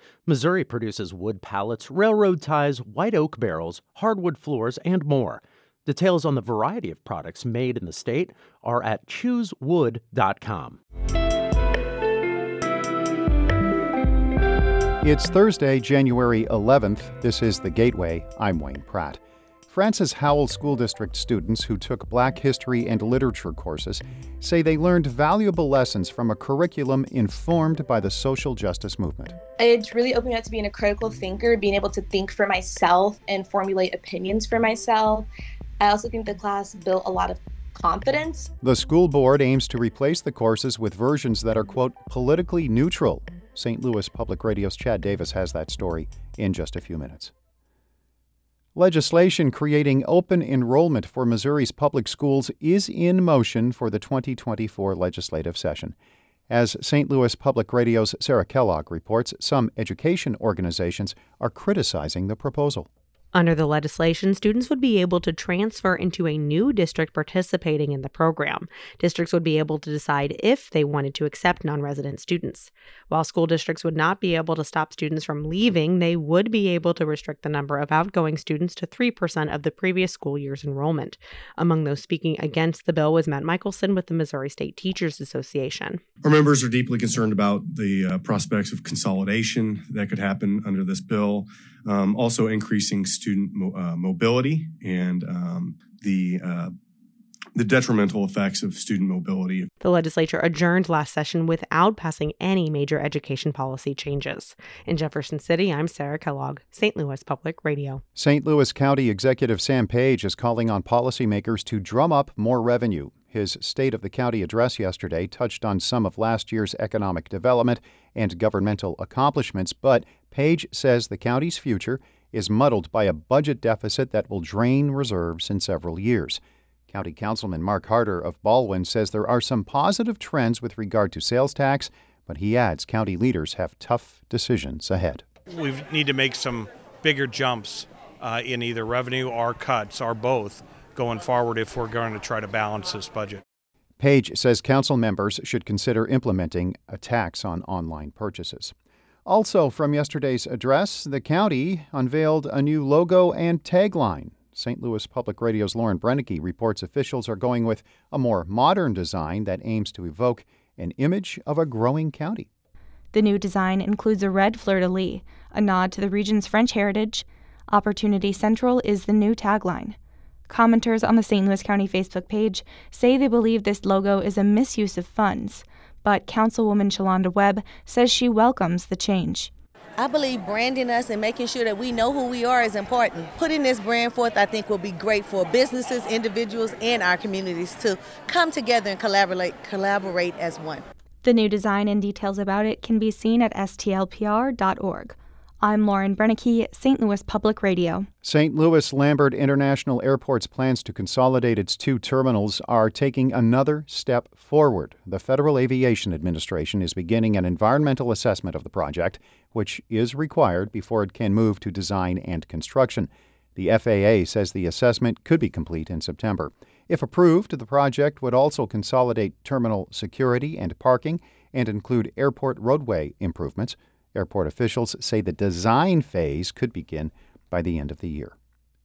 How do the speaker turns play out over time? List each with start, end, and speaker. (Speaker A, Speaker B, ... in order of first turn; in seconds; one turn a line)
Speaker A: 0.5-1.0
Speaker A: 2.5-3.8
Speaker A: 4.3-5.4
Speaker A: 6.7-8.7
Speaker A: 9.2-10.0
Speaker B: 15.0-19.2
Speaker B: 19.7-29.4
Speaker C: 29.6-35.3
Speaker C: 35.8-38.5
Speaker B: 38.6-47.3
Speaker B: 48.8-56.0
Speaker B: 56.5-62.9
Speaker D: 63.3-86.0
Speaker E: 86.2-96.7
Speaker E: 97.5-99.7
Speaker D: 99.8-108.0
Speaker B: 108.2-135.2
Speaker F: 135.5-143.4
Speaker B: 144.0-148.7
Speaker B: 149.3-162.5
Speaker G: 163.1-170.0
Speaker G: 170.5-179.5
Speaker H: 180.0-190.7
Speaker G: 191.2-198.1
Speaker B: 198.2-228.3